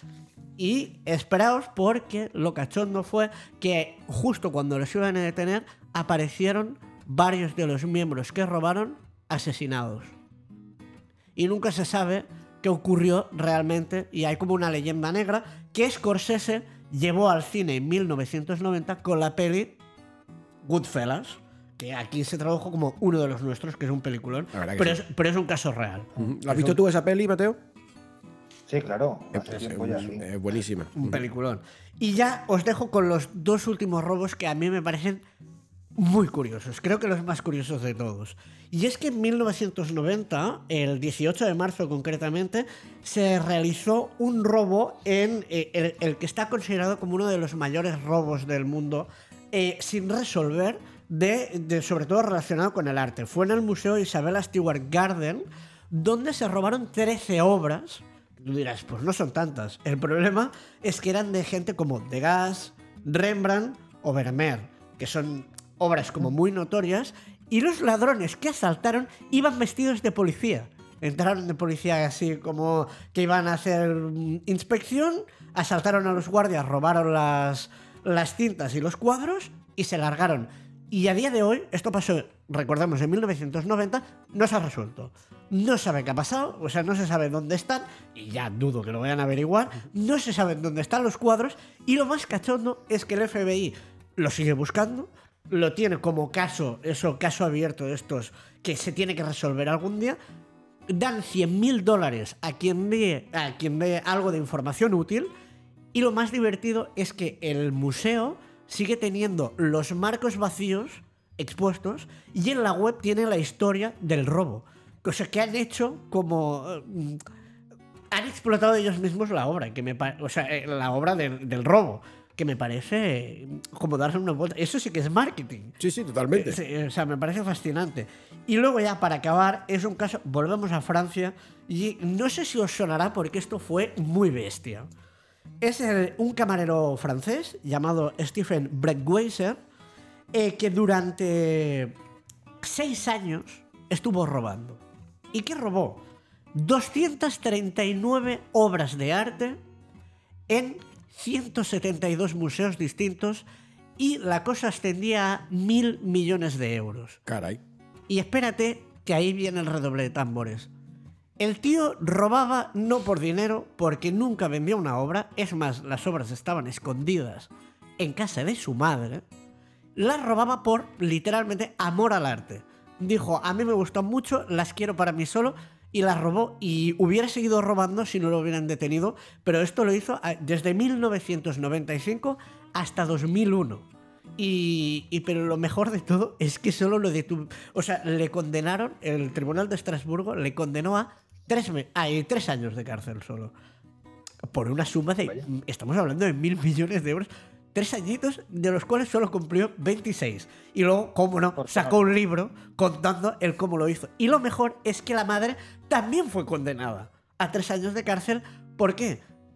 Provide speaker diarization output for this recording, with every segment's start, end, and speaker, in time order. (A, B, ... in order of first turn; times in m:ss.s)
0:00.6-0:10.2 A
0:11.4-0:19.8 A
0:20.6-0:26.8 A
0:24.5-0:25.0 B
0:26.2-0:27.6 B
0:28.7-0:30.2 C
0:29.3-0:31.2 B
0:31.0-0:35.2 A
0:36.0-1:40.2 A
1:40.9-1:45.3 A
1:45.9-1:57.2 A
1:58.1-2:05.8 A
2:05.8-2:06.6 B
2:06.3-2:14.9 A
2:15.6-2:19.6 A
2:20.3-2:22.0 A
2:22.6-2:24.8 A
2:25.3-2:26.0 A
2:26.5-2:29.6 A
2:30.5-2:33.4 A
2:34.0-2:37.2 A
2:37.3-2:37.6 B
2:38.1-2:40.7 A
2:41.4-2:49.2 A
2:50.0-3:13.5 A
3:14.5-3:29.2 A
3:21.6-3:22.0 C